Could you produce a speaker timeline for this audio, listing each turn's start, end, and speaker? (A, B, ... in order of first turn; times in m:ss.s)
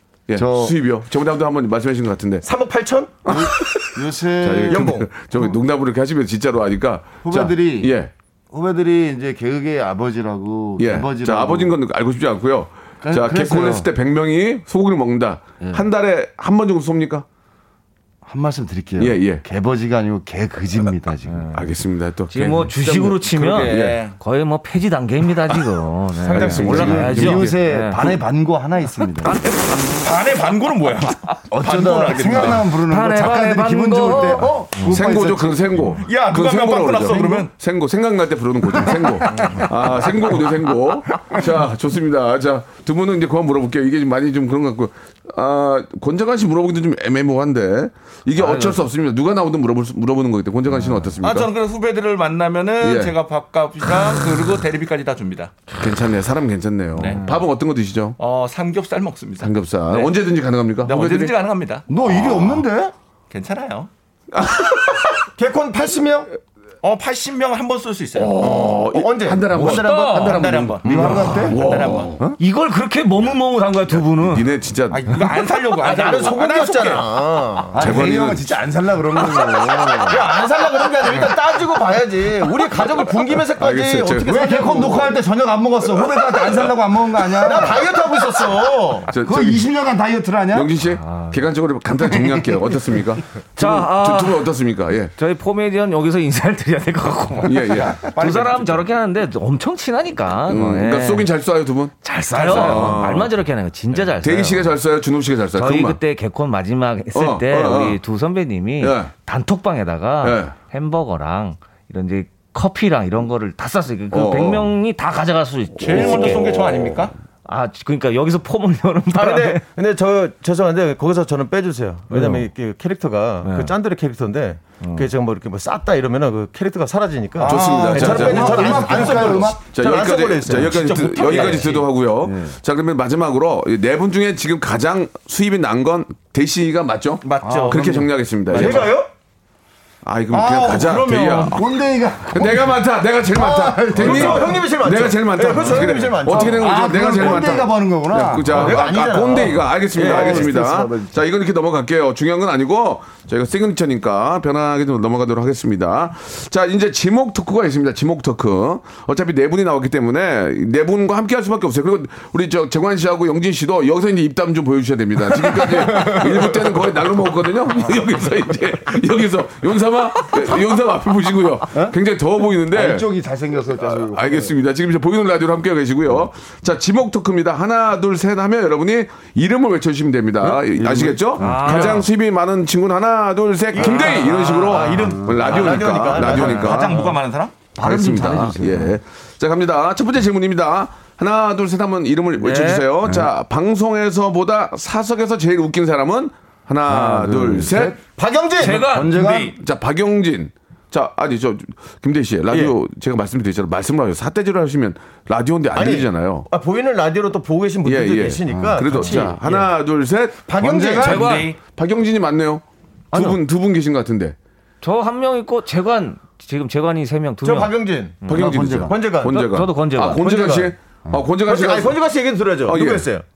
0:00.3-0:02.4 A
0:00.3-0:00.7 B
0:02.4-0:03.3 C
0:03.2-0:05.6 B
0:03.2-0:08.1 A
0:04.7-0:05.1 C
0:07.2-0:08.0 B
0:08.5-0:11.8 B
0:10.8-0:17.2 A
0:13.0-0:13.9 B
0:18.2-0:21.5 B
0:19.0-0:19.4 A
0:21.5-0:24.0 A
0:22.3-0:28.2 D
0:23.4-0:24.2 E
0:26.2-0:27.4 C
0:26.3-0:27.5 A
0:26.5-0:29.4 B
0:29.2-0:29.8 D
0:29.8-0:32.6 E
0:31.5-0:36.0 B
0:32.7-0:34.9 D
0:34.8-0:51.5 A
0:36.0-0:37.5 E
0:48.4-0:48.8 D
0:51.2-0:55.5 E
0:52.8-0:53.1 A
0:55.8-0:58.2 A
0:57.0-0:57.2 E
0:58.2-1:00.1 E
0:59.4-1:01.3 A
1:00.8-1:01.8 E
1:01.9-1:02.9 B
1:02.1-1:02.6 A
1:03.3-1:03.9 E
1:04.3-1:05.1 A
1:05.4-1:06.3 C
1:06.8-1:08.4 E
1:08.1-1:12.3 A
1:08.3-1:10.4 C
1:09.6-1:10.3 D
1:09.7-1:12.2 E
1:10.8-1:11.6 B
1:12.4-1:14.5 D
1:14.2-1:15.1 A
1:14.9-1:17.0 E
1:15.8-1:18.1 C
1:17.7-1:20.2 B
1:17.8-1:18.5 A
1:20.1-1:25.1 C
1:23.6-1:24.6 A
1:24.2-1:27.9 B
1:27.3-1:29.1 C
1:29.1-1:30.7 B
1:29.1-1:29.6 A
1:30.5-1:35.1 A
1:31.1-1:31.3 D
1:32.0-1:32.6 B
1:33.6-1:34.5 D
1:35.2-1:41.3 D
1:37.4-1:38.0 A
1:37.8-1:38.8 B
1:40.5-1:43.3 A
1:42.0-1:44.7 D
1:42.4-1:42.8 B
1:44.2-1:46.0 A
1:45.6-1:56.4 D
1:47.1-1:48.0 A
1:48.8-1:49.1 A
1:50.2-1:50.5 A
1:54.1-1:54.7 A
1:55.8-1:57.1 E
1:55.9-1:57.0 A
1:57.4-1:59.6 D
1:59.1-2:11.6 C
2:02.1-2:02.4 D
2:03.4-2:03.7 D
2:07.4-2:18.9 A
2:07.4-2:09.6 B
2:10.6-2:11.9 E
2:12.2-2:12.6 B
2:17.2-2:17.8 E
2:17.4-2:18.9 B
2:18.5-2:19.1 C
2:20.0-2:21.8 A
2:20.4-2:20.8 B
2:20.4-2:21.6 E
2:21.5-2:24.6 B
2:22.3-2:53.1 A
2:23.9-2:27.6 C
2:25.6-2:28.9 B
2:28.5-2:30.5 C
2:29.9-2:31.2 B
2:52.7-2:54.5 B
2:53.8-3:07.0 A
3:00.8-3:01.9 B
3:01.4-3:02.0 D
3:03.7-3:07.2 C
3:04.1-3:07.6 E
3:07.7-3:09.0 B
3:07.8-3:18.0 A
3:12.4-3:12.8 D
3:13.0-3:13.3 B
3:16.9-3:18.0 B
3:18.2-3:18.9 C
3:18.6-3:19.5 D
3:18.6-3:19.6 B
3:19.6-3:26.5 A
3:25.7-3:29.7 C
3:27.8-3:30.4 A
3:28.5-3:29.3 B
3:30.5-3:31.3 C
3:30.6-3:31.2 B
3:31.0-3:31.6 E
3:31.0-3:31.5 D
3:31.7-3:34.4 A
3:34.8-3:38.4 D
3:37.4-3:38.2 C
3:38.2-3:42.0 A
3:38.3-3:38.9 B
3:38.8-3:39.5 C
3:39.2-3:40.2 D
3:40.1-3:40.7 C
3:41.5-3:43.2 C
3:42.6-3:43.1 A